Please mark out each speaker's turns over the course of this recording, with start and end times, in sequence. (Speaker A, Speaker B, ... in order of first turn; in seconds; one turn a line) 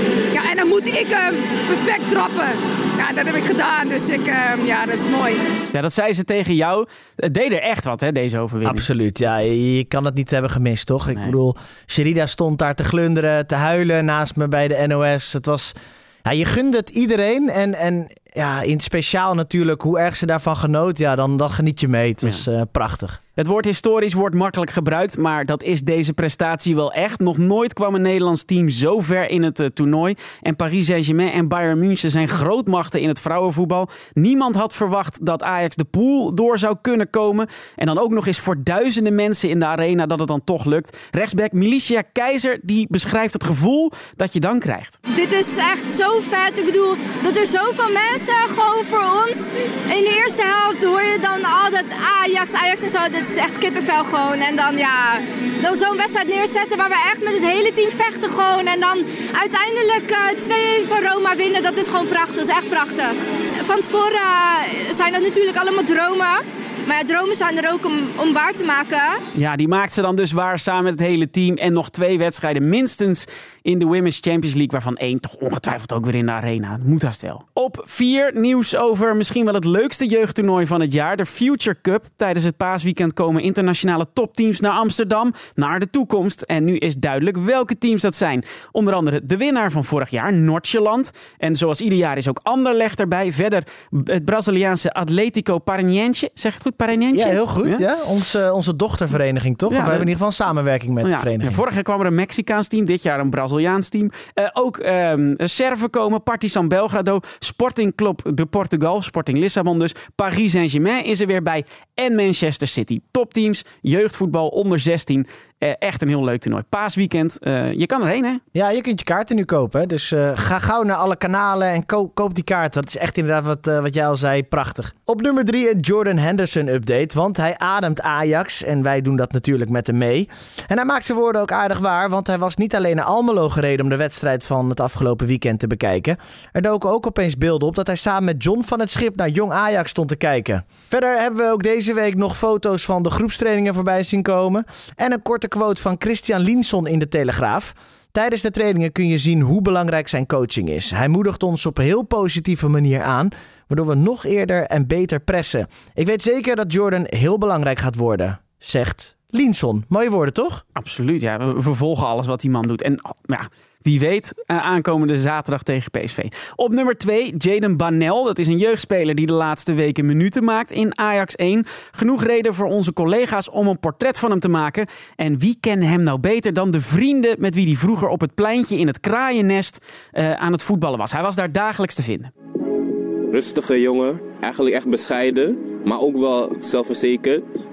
Speaker A: 0.3-5.5
Speaker B: 5.7-8.9
Speaker C: 8.6-15.7
Speaker C: 16.2-23.2
Speaker B: 23.4-45.0
Speaker D: 45.1-69.2
Speaker B: 69.3-97.8
Speaker C: 97.1-101.6
Speaker B: 99.7-100.1
Speaker B: 101.0-118.4
Speaker C: 118.5-160.6
Speaker B: 160.8-182.3
Speaker E: 183.3-187.5